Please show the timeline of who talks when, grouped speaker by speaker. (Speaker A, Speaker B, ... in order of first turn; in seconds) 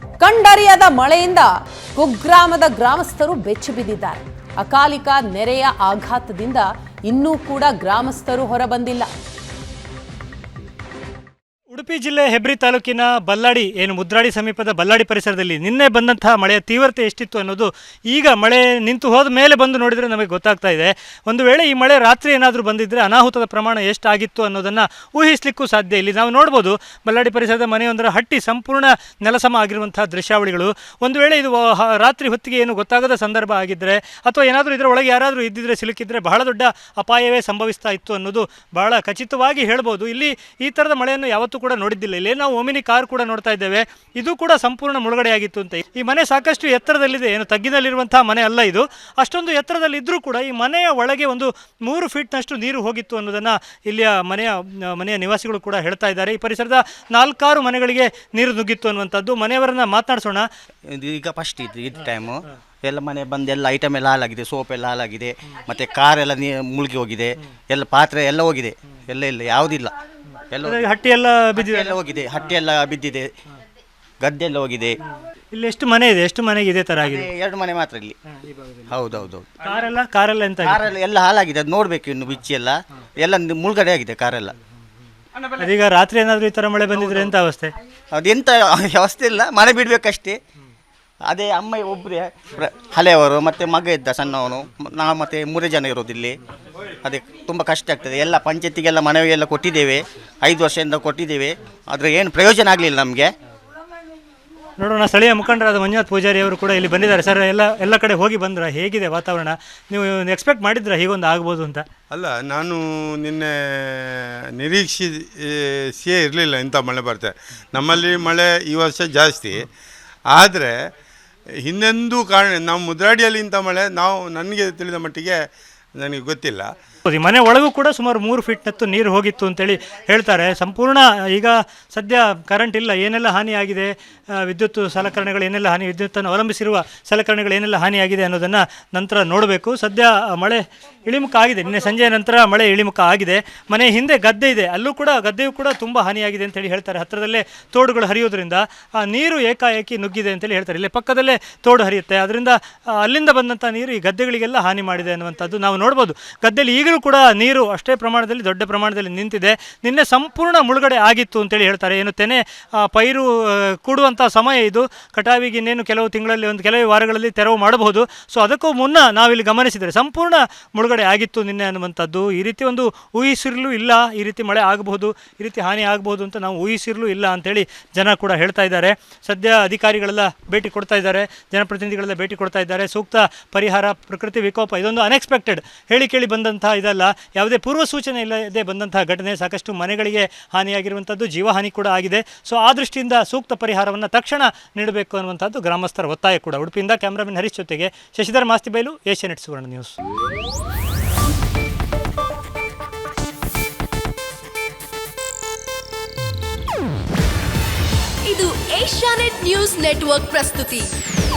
Speaker A: 0.2-9.1
Speaker B: 11.7-60.5, 70.6-72.0, 75.5-77.3, 79.6-80.9, 85.5-87.7, 104.8-111.8, 127.1-199.9
Speaker C: 60.9-70.0, 70.5-70.8, 71.5-73.3, 74.2-75.0, 77.0-78.1, 78.9-79.5, 80.6-84.5, 88.1-90.4, 91.3-96.4, 97.0-103.3
Speaker D: 112.1-119.7, 120.3-120.7, 121.6-125.3, 126.0-126.7
Speaker E: 208.2-210.9